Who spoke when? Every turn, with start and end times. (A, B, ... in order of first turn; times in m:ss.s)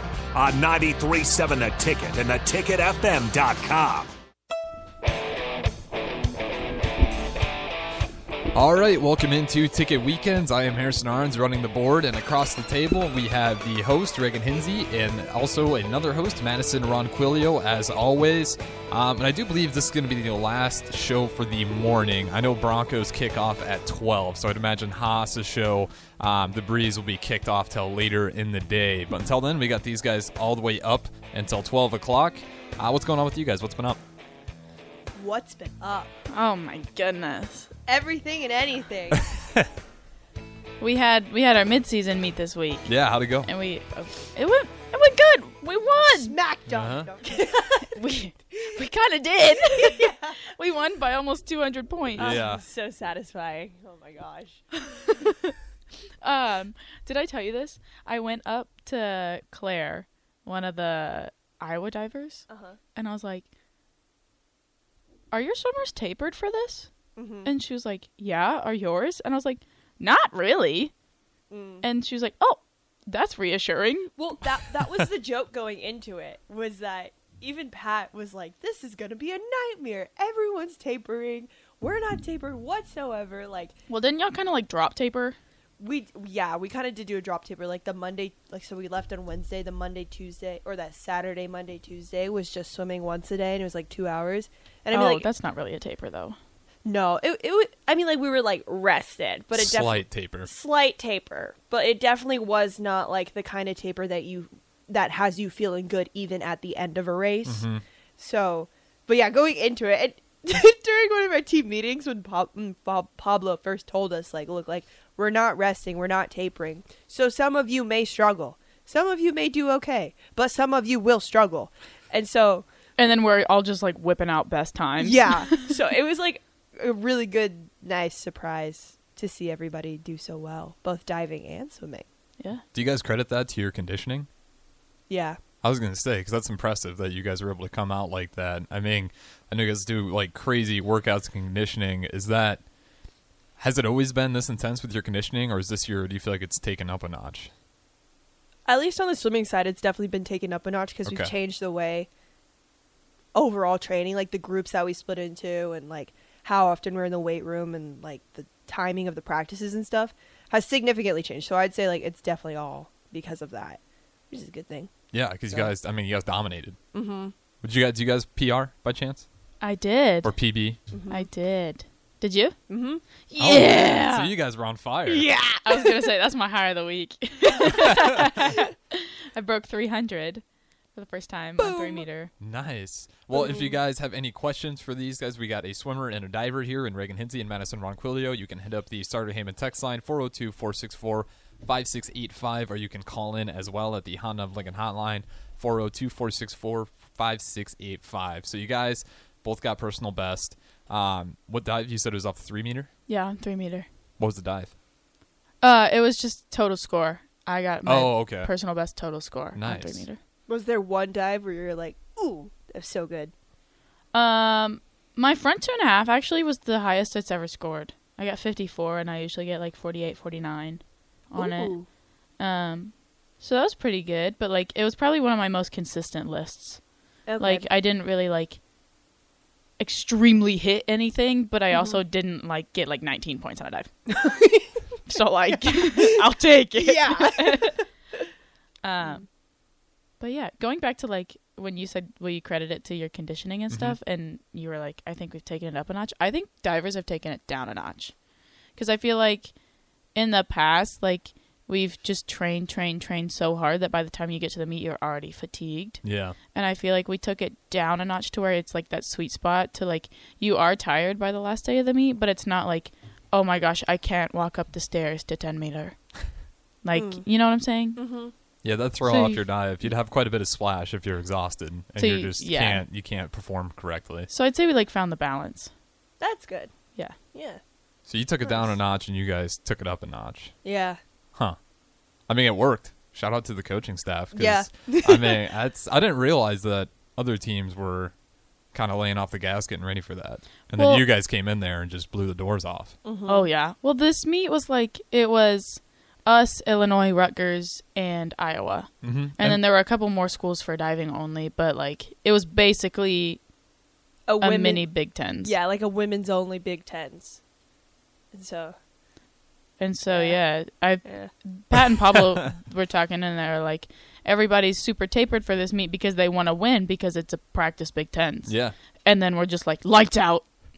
0:00.3-0:04.1 A
0:08.5-0:34.0 B
0:35.1-0:36.1 C
0:36.3-0:37.7 D
0:37.9-0:39.2 C
0:40.8-0:42.9 D
0:42.9-0:43.5 B
0:43.4-0:46.4 D
0:46.1-0:48.0 C
0:46.7-0:47.1 B
0:47.9-0:52.4 D
0:49.8-0:50.4 C
0:52.2-0:54.7 C
0:52.2-0:52.6 B
0:55.0-0:55.4 D
0:56.2-1:03.5 D
1:02.5-1:02.8 C
1:05.3-1:06.9 D
1:07.2-1:07.5 C
1:07.4-1:10.9 D
1:11.5-1:11.8 C
1:11.8-1:14.1 D
1:14.2-1:23.8 C
1:23.9-1:25.4 D
1:25.8-1:35.3 C
1:34.9-1:36.4 D
1:36.8-1:47.6 C
1:39.5-1:40.5 B
1:47.4-1:47.8 B
1:48.2-2:02.6 C
2:03.0-2:05.7 D
2:05.0-2:12.0 C
2:12.7-2:14.3 B
2:15.1-2:15.4 C
2:15.6-2:22.6 B
2:23.6-2:27.5 B
2:28.7-2:32.1 C
2:31.0-2:31.3 B
2:33.3-2:44.9 C
2:45.1-2:46.8 B
2:46.9-2:47.3 C
2:47.6-2:49.2 B
2:49.6-2:50.3 D
2:50.2-2:50.8 B
2:50.9-2:51.3 C
2:51.1-2:52.6 D
2:52.7-2:53.0 C
2:53.3-2:54.3 D
2:53.4-2:55.3 B
2:55.0-2:56.0 C
2:55.6-3:00.4 D
3:00.9-3:02.3 D
3:01.6-3:02.0 C
3:02.4-3:22.9 B
3:03.3-3:03.8 C
3:23.1-3:23.8 D
3:24.2-3:24.7 B
3:25.6-3:30.2 D
3:27.8-3:28.5 B
3:29.5-3:30.0 B
3:30.5-3:33.3 C
3:34.1-3:41.8 D
3:41.4-3:41.9 C
3:42.4-3:46.8 D
3:47.2-3:47.7 C
3:47.4-3:48.6 D
3:49.8-3:53.9 D
3:51.7-3:52.0 C
3:54.1-3:56.2 C
3:55.0-3:57.8 D
3:56.8-3:58.2 C
3:58.8-3:59.2 D
4:00.2-4:08.1 D
4:03.7-4:04.0 B
4:08.8-4:09.5 D
4:10.1-4:16.0 D
4:16.0-4:16.4 B
4:16.5-4:26.0 D
4:26.8-4:28.0 D
4:26.9-4:27.2 C
4:28.0-4:28.3 C
4:28.6-4:34.3 B
4:29.0-4:29.4 D
4:32.0-4:32.8 D
4:34.3-4:35.7 D
4:36.2-4:36.7 C
4:37.3-4:37.6 C
4:38.1-4:40.5 B
4:38.4-4:38.7 C
4:40.6-4:41.0 C
4:42.3-4:48.1 B
4:44.3-4:45.4 C
4:48.7-4:53.0 B
4:50.8-4:51.0 D
4:53.0-4:53.5 C
4:53.3-5:03.4 D
4:59.0-4:59.6 B
5:04.3-5:07.4 C
5:04.4-5:05.5 D
5:08.3-5:08.8 C
5:09.8-5:20.4 D
5:10.1-5:10.4 C
5:11.0-5:11.3 C
5:18.5-5:18.7 B